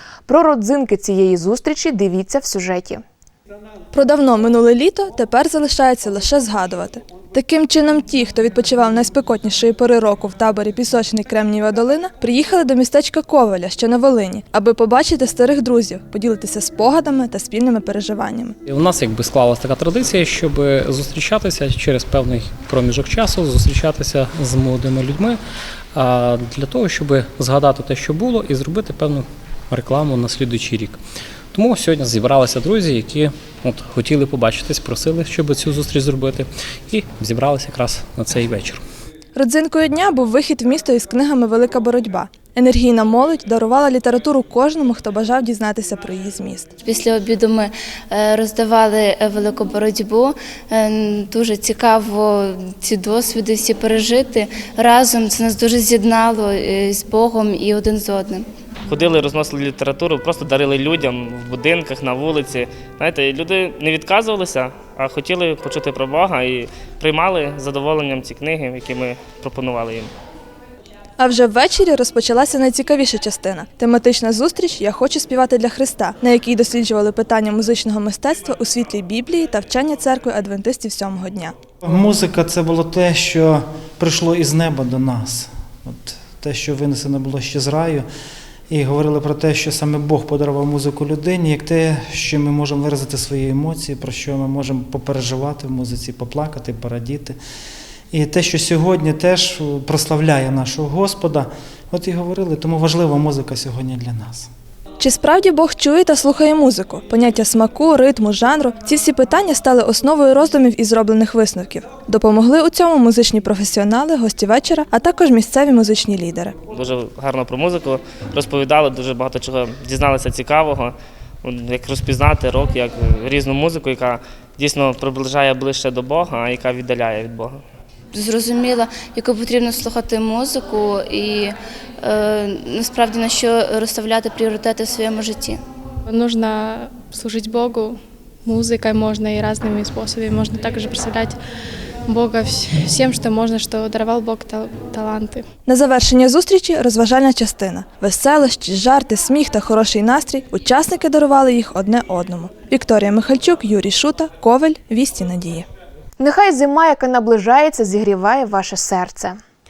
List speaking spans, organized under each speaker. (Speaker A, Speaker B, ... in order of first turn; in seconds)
Speaker A: 0.3-3.0, 156.2-159.4
Speaker B: 3.9-18.6, 39.4-46.7, 71.2-81.5, 105.0-116.5, 145.7-155.7
Speaker C: 18.7-25.4, 25.9-31.0, 31.5-38.8
Speaker D: 46.9-58.4, 128.1-131.5, 132.0-135.6
Speaker E: 58.9-70.1, 116.7-127.6
Speaker F: 81.8-88.1, 88.7-97.4, 98.1-104.5
Speaker G: 136.1-141.4, 142.1-145.4